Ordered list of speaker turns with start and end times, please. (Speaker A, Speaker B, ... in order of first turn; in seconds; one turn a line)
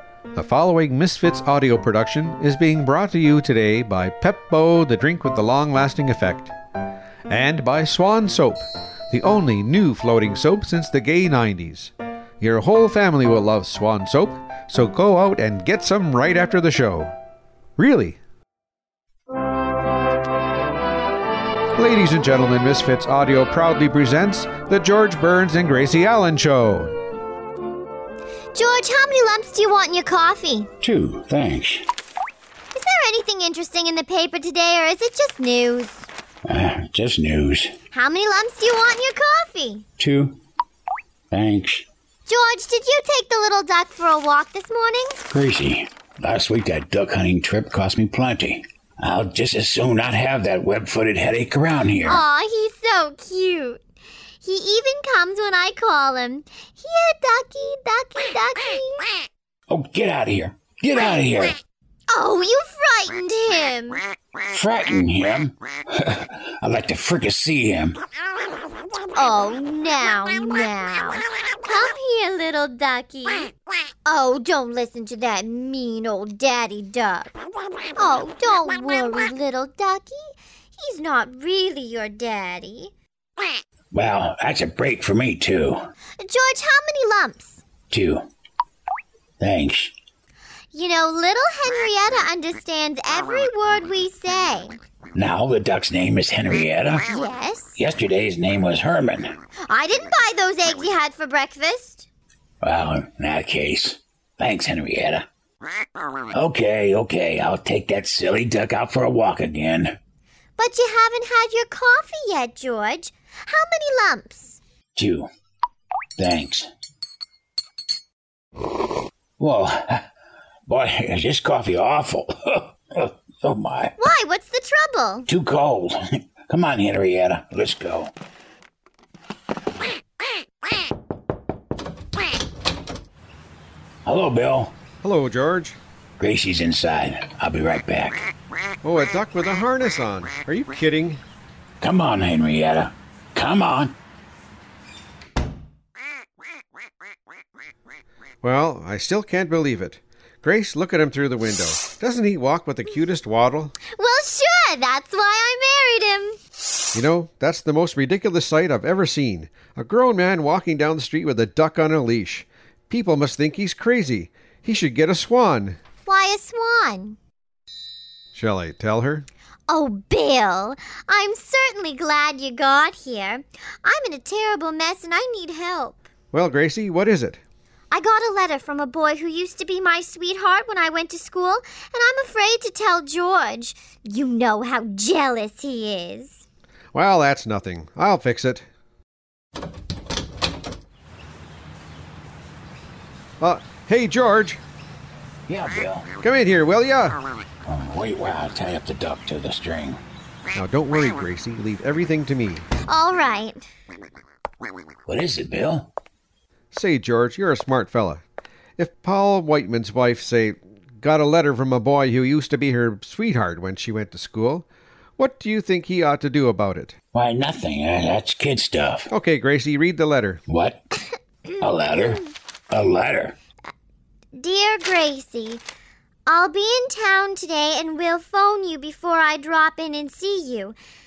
Speaker A: 0.3-6.5
Speaker A: 7.3-17.1
Speaker A: 17.8-18.2
Speaker A: 21.7-26.9
Speaker B: 28.5-30.7
Speaker C: 30.8-31.9
Speaker B: 32.7-36.1
Speaker C: 36.5-37.8
Speaker B: 37.9-39.9
Speaker C: 40.0-40.4
Speaker C: 41.3-41.9
Speaker B: 42.3-45.2
Speaker C: 45.3-52.2
Speaker B: 52.0-53.8
Speaker B: 54.4-59.2
Speaker C: 59.7-61.6
Speaker B: 62.1-64.0
Speaker C: 64.5-68.0
Speaker B: 69.1-73.5
Speaker B: 74.1-77.3
Speaker B: 78.0-80.3
Speaker B: 80.8-82.9
Speaker C: 83.9-85.9
Speaker B: 86.2-87.6
Speaker C: 87.9-88.3
Speaker C: 89.4-89.9
Speaker B: 90.7-94.8
Speaker C: 95.2-97.1
Speaker B: 97.1-97.8
Speaker C: 97.8-99.4
Speaker B: 99.7-102.1
Speaker C: 102.6-105.3
Speaker C: 106.3-110.0
Speaker B: 110.6-114.6
Speaker C: 115.0-115.3
Speaker C: 116.2-116.7
Speaker C: 119.4-120.1
Speaker C: 120.7-124.0
Speaker B: 124.0-125.3
Speaker C: 125.3-128.1
Speaker C: 134.1-134.8
Speaker A: 135.0-135.8
Speaker C: 136.2-138.3
Speaker A: 138.8-141.2
Speaker C: 141.8-144.0
Speaker A: 148.4-153.8
Speaker B: 153.9-156.4
Speaker A: 156.9-165.8
Speaker B: 166.1-167.2
Speaker A: 168.3-169.3
Speaker B: 169.7-176.1
Speaker A: 176.3-177.4
Speaker B: 177.9-186.4
Speaker A: 186.9-188.7
Speaker A: 193.4-194.6
Speaker C: 195.5-196.1
Speaker A: 196.2-197.2
Speaker C: 197.7-200.0
Speaker A: 200.5-202.7
Speaker B: 202.9-203.6
Speaker C: 205.1-205.9
Speaker A: 206.7-208.2
Speaker A: 208.8-214.7
Speaker A: 215.2-216.9
Speaker C: 217.1-219.1
Speaker A: 219.1-220.4
Speaker C: 220.5-220.8
Speaker C: 221.6-223.4
Speaker B: 224.3-225.6
Speaker B: 226.3-230.8